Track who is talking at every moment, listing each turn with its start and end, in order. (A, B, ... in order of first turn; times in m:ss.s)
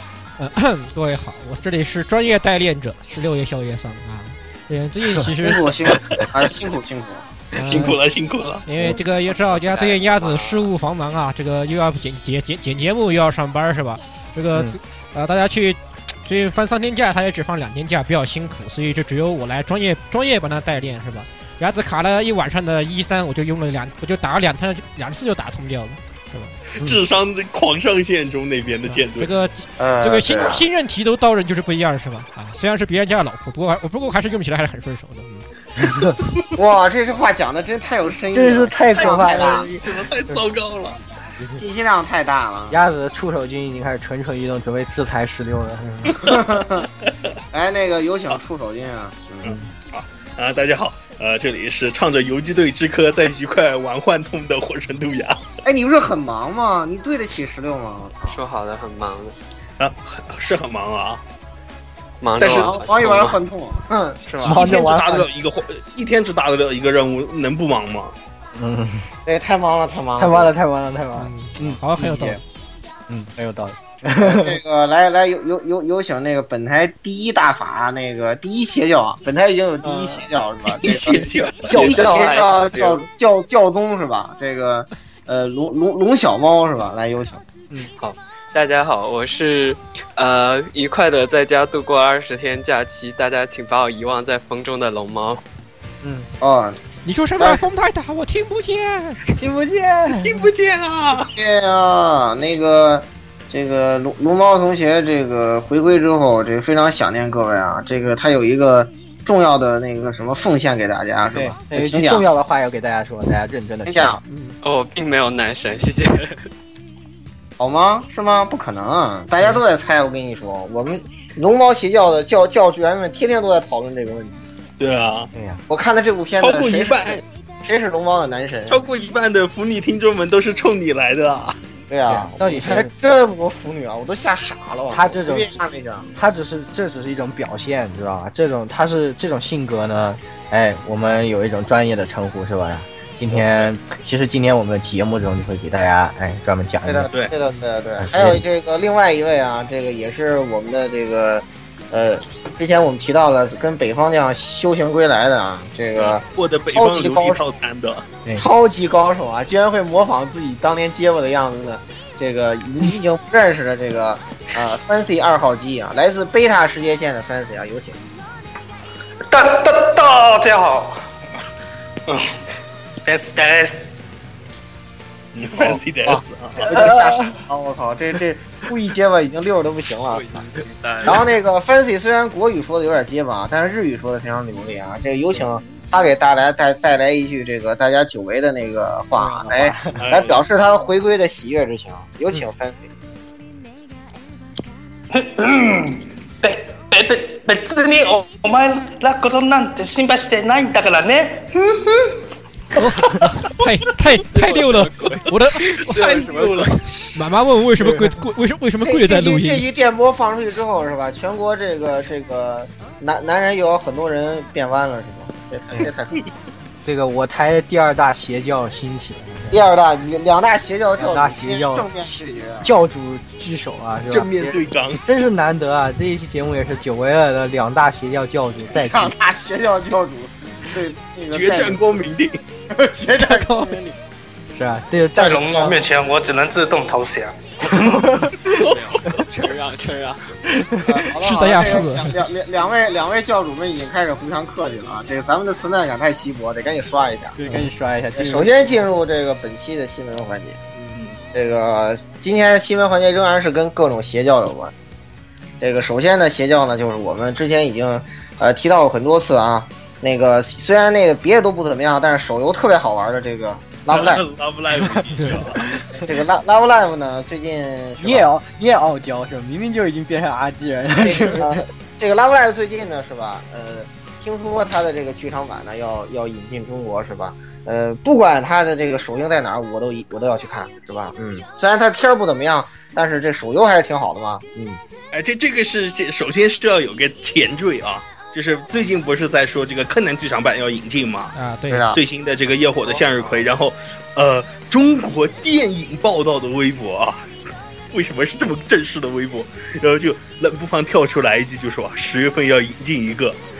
0:00.4-0:05.6 A
0:05.4-0:07.2 B
0:05.9-0:06.3 C
0:07.5-0:08.6 C
0:07.5-0:08.0 A
0:08.6-0:26.5 A
0:09.5-0:10.7 B
0:26.7-0:29.4 C
0:29.1-0:35.5 A
0:29.8-0:30.7 B
0:35.8-0:36.1 D
0:36.6-0:39.7 B
0:38.3-0:40.4 D
0:39.0-0:41.0 C
0:41.5-0:42.8 B
0:42.7-0:46.4 D
0:46.1-0:46.4 C
0:46.2-0:46.9 B
0:47.5-0:49.6 B
0:49.4-0:55.4 C
0:55.6-0:58.4 B
0:58.3-0:59.4 E
0:59.8-1:01.2 C
1:02.2-1:03.4 E
1:02.4-1:02.7 C
1:02.5-1:04.8 B
1:04.4-1:08.1 C
1:04.4-1:05.3 D
1:08.5-1:09.1 D
1:09.2-1:10.5 B
1:10.2-1:11.8 D
1:11.2-1:12.4 A
1:11.6-1:12.4 B
1:13.1-1:14.6 D
1:14.0-1:27.4 B
1:19.8-1:20.3 D
1:20.7-1:21.8 C
1:21.6-1:22.5 D
1:21.7-1:23.0 E
1:28.0-1:35.4 E
1:36.0-1:36.3 D
1:36.4-1:36.8 B
1:37.0-1:39.3 A
1:39.4-1:40.5 D
1:40.2-1:41.3 C
1:41.1-1:52.2 B
1:51.3-1:54.2 D
1:53.8-1:54.2 B
1:54.2-1:54.6 A
1:54.6-1:56.5 E
1:57.6-2:04.4 B
2:04.8-2:05.3 C
2:05.3-2:05.6 D
2:05.7-2:08.8 B
2:06.4-2:07.2 C
2:08.7-2:11.5 C
2:11.9-2:16.1 B
2:12.1-2:12.9 D
2:14.9-2:15.6 D
2:16.1-2:27.1 D
2:23.3-2:23.7 C
2:26.8-2:37.4 B
2:28.0-2:28.4 D
2:36.0-2:38.0 C
2:38.4-2:48.0 B
2:49.3-2:51.1 F
2:52.1-2:52.3 F
2:53.0-2:53.9 F
2:55.3-2:57.2 C
2:55.6-3:00.4 B
3:00.1-3:01.2 E
3:00.8-3:01.2 C
3:01.0-3:12.9 B
3:09.1-3:10.2 D
3:10.0-3:10.4 C
3:15.1-3:22.2 F
3:22.7-3:26.3 A
3:24.2-3:27.0 E
3:25.6-3:26.6 C
3:27.1-3:29.6 A
3:27.8-3:28.2 D
3:28.8-3:36.3 B
3:36.8-3:39.7 D
3:39.5-3:42.7 B
3:41.0-3:49.2 D
3:44.1-3:45.0 C
3:48.7-3:52.0 B
3:51.3-3:52.4 C
3:52.7-3:54.0 B
3:53.3-3:53.7 A
3:54.5-3:55.8 D
3:55.1-3:58.0 F
3:57.7-3:58.5 D
3:58.5-3:59.2 C
3:58.5-4:00.3 E
4:00.5-4:01.0 D
4:00.8-4:07.4 B
4:01.2-4:02.1 A
4:07.4-4:08.9 D
4:08.2-4:10.6 B
4:11.3-4:14.7 B
4:15.6-4:24.2 B
4:23.9-4:25.7 C
4:24.7-4:26.1 D
4:25.9-4:28.3 B
4:28.0-4:31.6 D
4:31.0-4:44.8 B
4:45.1-4:51.3 C
4:51.3-4:51.9 A
4:51.7-4:52.0 B
4:51.9-4:57.2 C
4:57.9-5:03.4 C